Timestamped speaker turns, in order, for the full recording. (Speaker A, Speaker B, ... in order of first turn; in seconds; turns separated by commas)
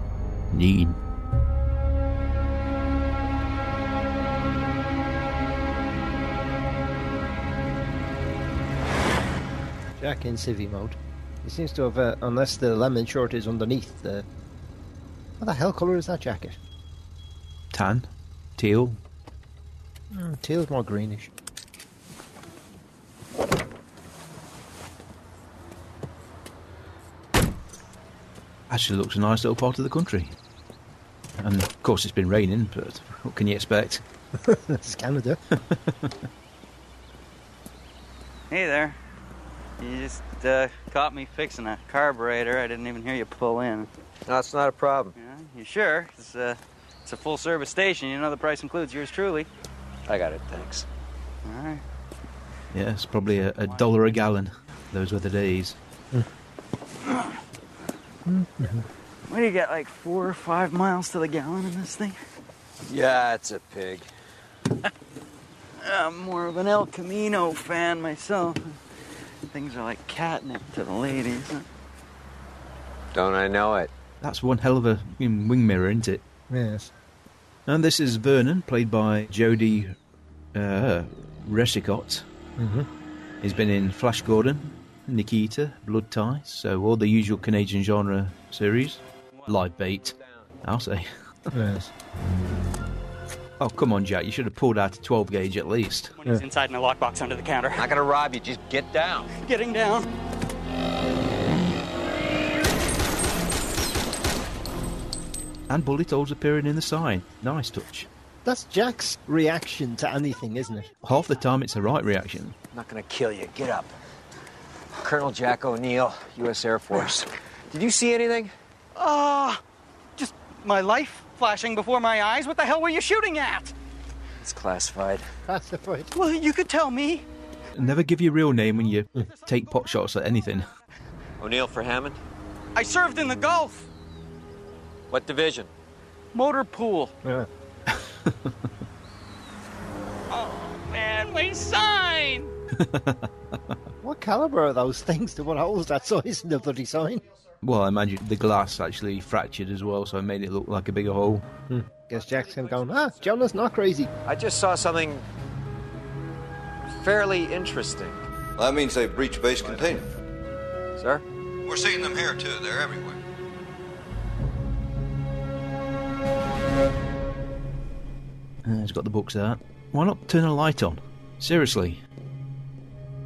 Speaker A: 0.5-1.0, Speaker B: 10.0-14.2, Speaker B: 15.4-16.6, Speaker A: 17.7-19.0, Speaker B: 20.1-21.3, Speaker A: 28.7-30.3, Speaker A: 31.4-34.0, Speaker B: 34.3-35.4, Speaker A: 35.5-36.1, Speaker C: 38.5-39.0, Speaker C: 39.8-43.9, Speaker D: 44.3-45.1, Speaker C: 45.1-49.5, Speaker D: 50.1-50.8, Speaker C: 51.4-51.8, Speaker A: 52.7-55.8, Speaker C: 53.6-54.2, Speaker B: 58.2-58.9, Speaker C: 59.3-62.2, Speaker D: 62.9-64.1, Speaker C: 65.8-68.7, Speaker C: 69.5-71.7, Speaker D: 73.1-73.9, Speaker A: 74.2-76.2, Speaker B: 76.5-76.9, Speaker A: 77.7-80.0, Speaker A: 80.5-82.2, Speaker B: 82.6-82.9, Speaker A: 83.4-91.1, Speaker C: 89.3-89.7, Speaker B: 91.5-91.9, Speaker A: 93.6-96.1, Speaker C: 96.2-97.9, Speaker D: 97.7-99.3, Speaker C: 99.3-100.1, Speaker A: 105.7-108.1, Speaker B: 108.4-110.9, Speaker A: 111.0-112.5, Speaker D: 112.7-113.9, Speaker D: 115.0-118.5, Speaker C: 119.0-119.6, Speaker C: 120.2-123.7, Speaker D: 124.4-125.2, Speaker B: 125.5-126.1, Speaker C: 126.1-127.2, Speaker A: 127.7-130.7, Speaker D: 131.4-132.2, Speaker C: 132.7-133.9, Speaker D: 135.1-135.7, Speaker C: 136.3-137.1, Speaker A: 138.1-138.5, Speaker C: 140.3-142.5, Speaker A: 142.8-143.3, Speaker B: 144.0-147.2, Speaker A: 147.6-151.4, Speaker B: 151.7-154.1, Speaker D: 154.2-155.2, Speaker D: 156.9-158.2, Speaker E: 158.6-160.1, Speaker D: 161.0-161.2, Speaker E: 161.6-163.2, Speaker A: 168.6-172.0